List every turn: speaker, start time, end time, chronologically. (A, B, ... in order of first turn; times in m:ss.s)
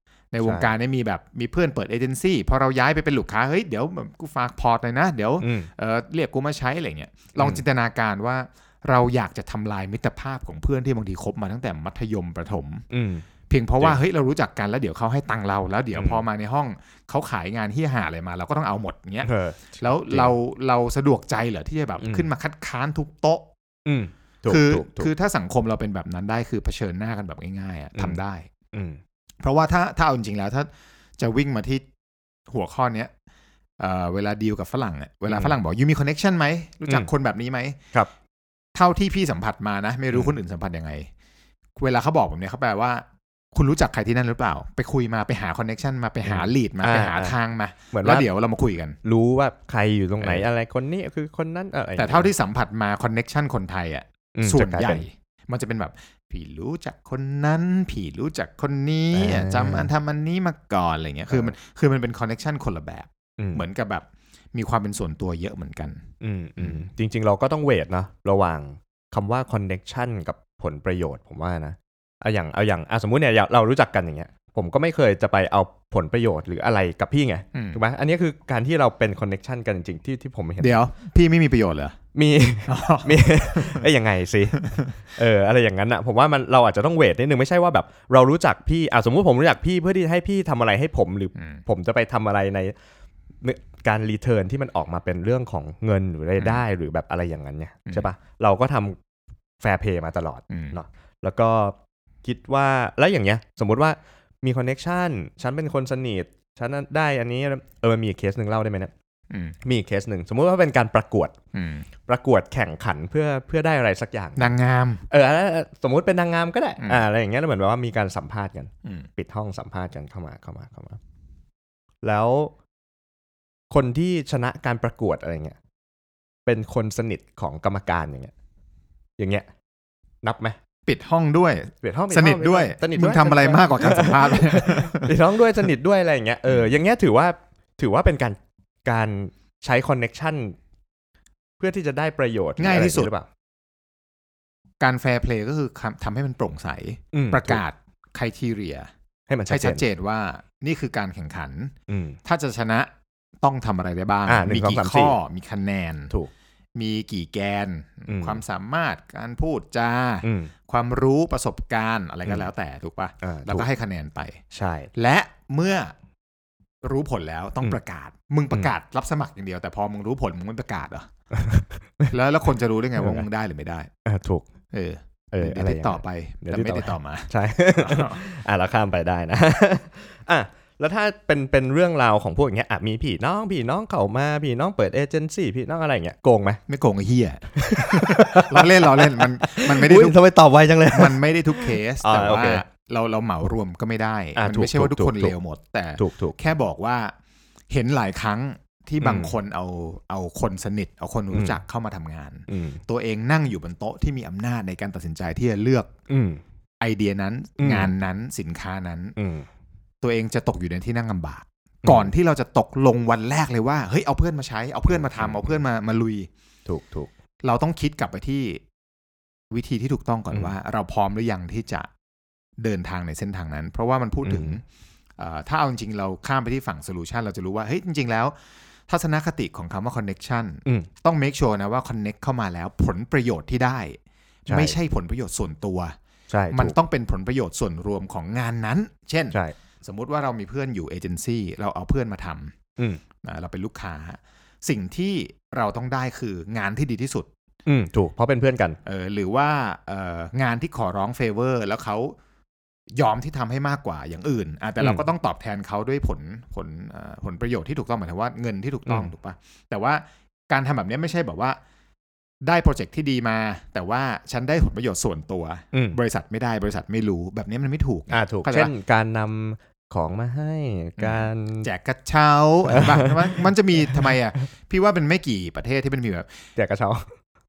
0:00.3-0:12.8 A
0:00.4-0:00.7 B
0:05.4-0:05.7 B
0:12.9-0:13.2 B
0:13.5-0:23.5 A
0:16.0-0:16.2 B
0:19.2-0:20.4 B
0:22.0-0:22.3 B
0:23.9-0:25.1 B
0:24.5-0:28.5 A
0:28.7-0:29.0 B
0:29.4-0:31.8 A
0:32.5-0:33.1 A
0:33.8-0:37.8 A
0:35.3-0:35.6 B
0:38.8-0:41.1 A
0:41.8-0:49.0 A
0:46.2-0:47.4 B
0:47.9-0:48.3 B
0:49.0-0:52.3 B
0:52.0-1:06.0 A
0:54.4-0:55.0 B
0:59.1-0:59.9 B
1:01.3-1:01.6 B
1:03.4-1:03.6 B
1:06.2-1:20.8 B
1:06.6-1:06.9 A
1:17.5-1:17.8 A
1:20.6-1:22.0 A
1:22.2-1:32.7 B
1:22.7-1:23.9 A
1:24.6-1:24.9 A
1:31.4-1:31.6 A
1:33.4-1:39.0 B
1:39.6-1:48.9 B
1:40.5-1:40.8 A
1:49.3-1:49.6 A
1:49.7-1:51.3 B
1:51.5-1:51.9 A
1:52.1-1:54.6 B
1:54.4-1:55.0 A
1:55.1-2:01.0 B
2:02.0-2:02.5 B
2:03.7-2:05.6 B
2:06.5-2:08.3 B
2:09.2-2:09.5 B
2:10.2-2:10.6 B
2:10.9-2:15.1 A
2:11.8-2:20.6 B
2:21.6-2:23.3 B
2:22.6-2:23.1 A
2:24.8-2:28.9 A
2:27.1-2:27.6 B
2:29.3-2:29.8 B
2:29.5-2:31.7 A
2:31.9-2:32.2 B
2:32.2-2:32.9 A
2:33.4-2:36.1 A
2:34.3-2:35.2 B
2:36.8-2:44.4 A
2:38.1-2:38.4 B
2:40.2-2:40.5 B
2:43.2-2:43.7 B
2:44.5-2:44.9 B
2:45.0-2:46.0 A
2:46.8-2:51.1 A
2:51.3-2:52.1 B
2:52.1-2:53.9 A
2:53.0-2:53.2 B
2:54.1-2:54.4 B
2:54.7-2:58.2 A
2:55.3-3:06.6 B
3:06.7-3:10.2 A
3:07.6-3:12.6 B
3:10.9-3:17.2 A
3:14.4-3:15.3 B
3:16.0-3:16.4 B
3:17.7-3:25.9 A
3:19.0-3:19.4 B
3:21.3-3:21.6 B
3:22.5-3:22.8 B
3:26.1-3:26.4 B
3:26.8-3:29.2 A
3:27.6-3:27.9 B
3:29.2-3:29.5 B
3:30.0-3:36.3 A
3:31.8-3:32.1 B
3:34.9-3:35.6 B
3:36.7-3:37.1 B
3:37.4-3:38.6 A
3:39.5-3:41.9 A
3:42.6-3:44.6 A
3:44.2-3:44.6 B
3:45.2-3:56.0 A
3:54.5-3:54.8 B
3:56.3-3:56.8 B
3:56.5-4:02.6 A
4:03.2-4:07.3 A
4:07.7-4:08.8 B
4:08.8-4:12.2 A
4:13.0-4:21.6 A
4:14.8-4:15.1 B
4:22.4-4:28.7 A
4:25.7-4:26.0 B
4:28.1-4:31.7 B
4:31.0-4:36.3 A
4:32.7-4:34.2 B
4:36.6-4:37.1 B